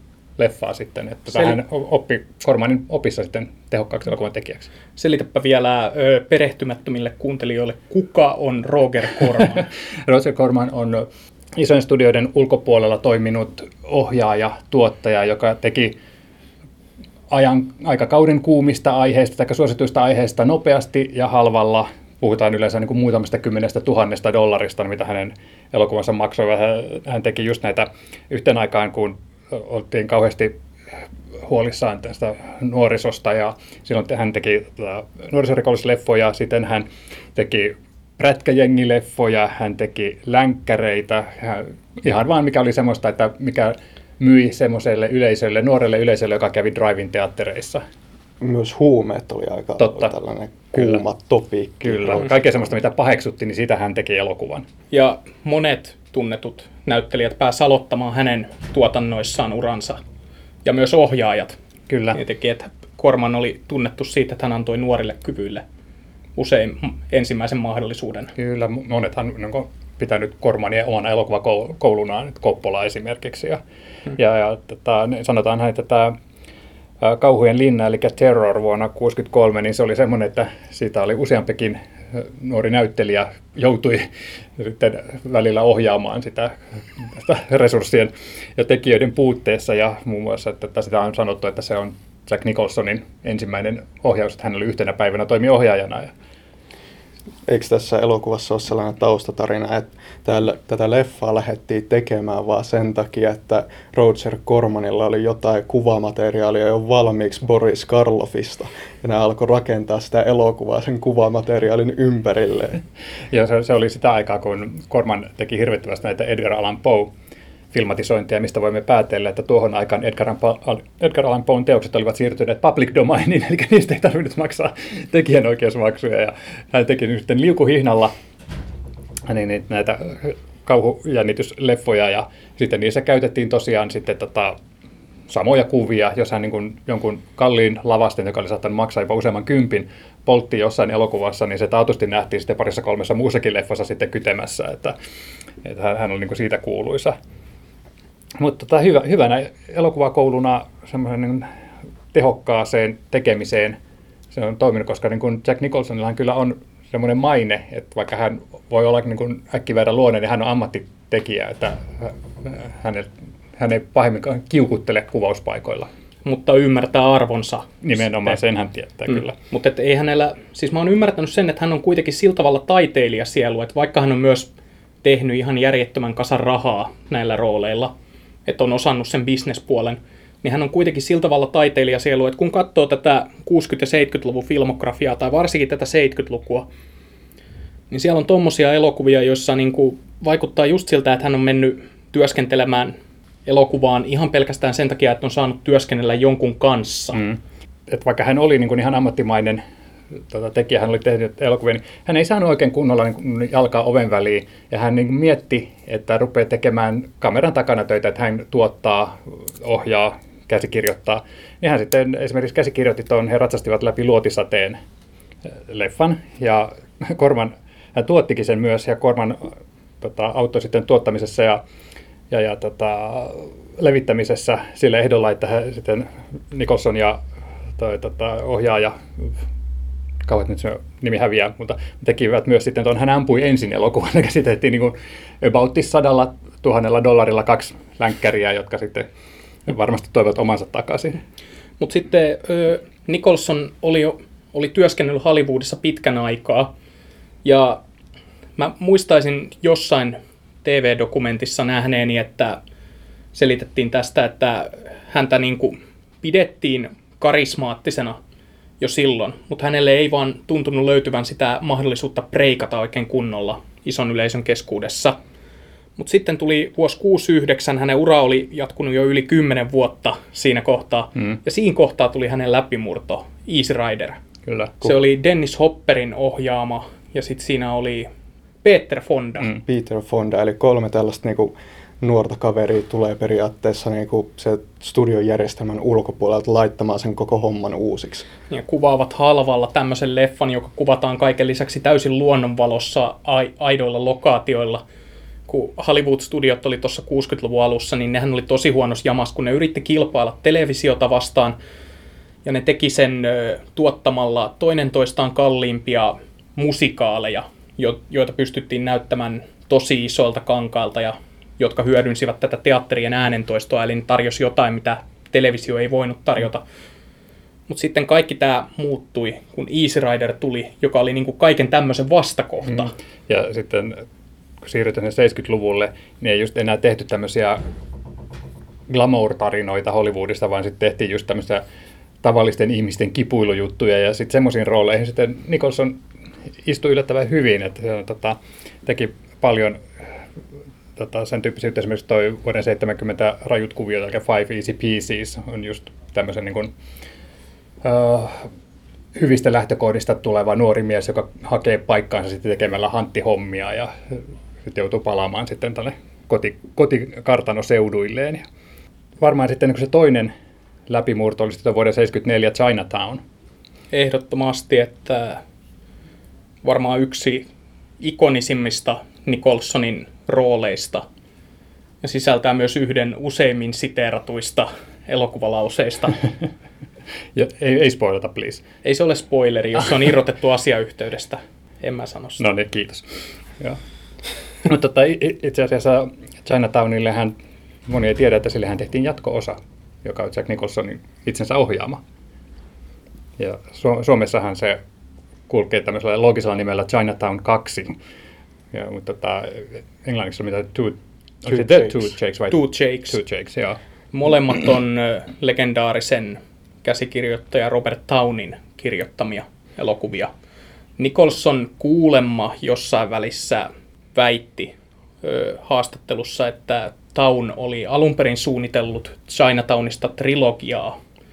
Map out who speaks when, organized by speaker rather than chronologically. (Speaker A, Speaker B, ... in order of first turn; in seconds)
Speaker A: 0.4-4.7, 10.0-16.0, 17.3-47.8, 49.8-50.1, 50.7-51.0, 51.8-54.7, 61.9-62.2, 68.3-73.6, 74.1-76.1, 77.0-96.1, 113.3-117.1, 117.7-128.1, 129.3-134.6, 135.3-144.9, 145.6-147.1, 148.4-151.5, 152.1-153.8, 154.3-165.9, 167.8-169.3, 197.1-199.6, 200.3-214.8, 215.5-221.6, 222.3-227.2, 227.8-229.3, 230.2-239.1, 239.7-241.2, 274.4-274.7, 322.7-324.0, 324.6-327.6, 328.9-331.6, 332.2-336.0, 336.6-339.8, 341.0-346.7, 347.8-348.5, 349.1-358.4, 359.2-360.3, 360.9-363.2, 377.3-378.6, 382.4-383.8, 384.6-387.4, 387.9-392.0, 393.4-394.8, 395.5-397.9, 398.7-403.8
Speaker B: 5.0-9.7, 54.9-60.0, 60.6-61.6, 62.1-65.6, 66.3-68.3, 166.2-168.4, 169.1-174.5, 175.0-177.9, 178.4-186.7, 187.9-197.2, 241.8-246.7, 247.4-247.8, 248.6-252.6, 253.3-258.2, 258.8-265.2, 266.0-274.2, 274.8-278.1, 278.6-279.5, 288.5-294.8, 295.5-301.6, 302.4-316.6, 317.7-322.9, 363.9-365.4, 366.6-367.5, 368.0-371.1, 372.0-376.2, 378.8-382.4, 402.5-403.2, 404.1-410.3, 411.0-421.0
Speaker C: 48.4-52.3, 97.5-112.8, 279.6-288.3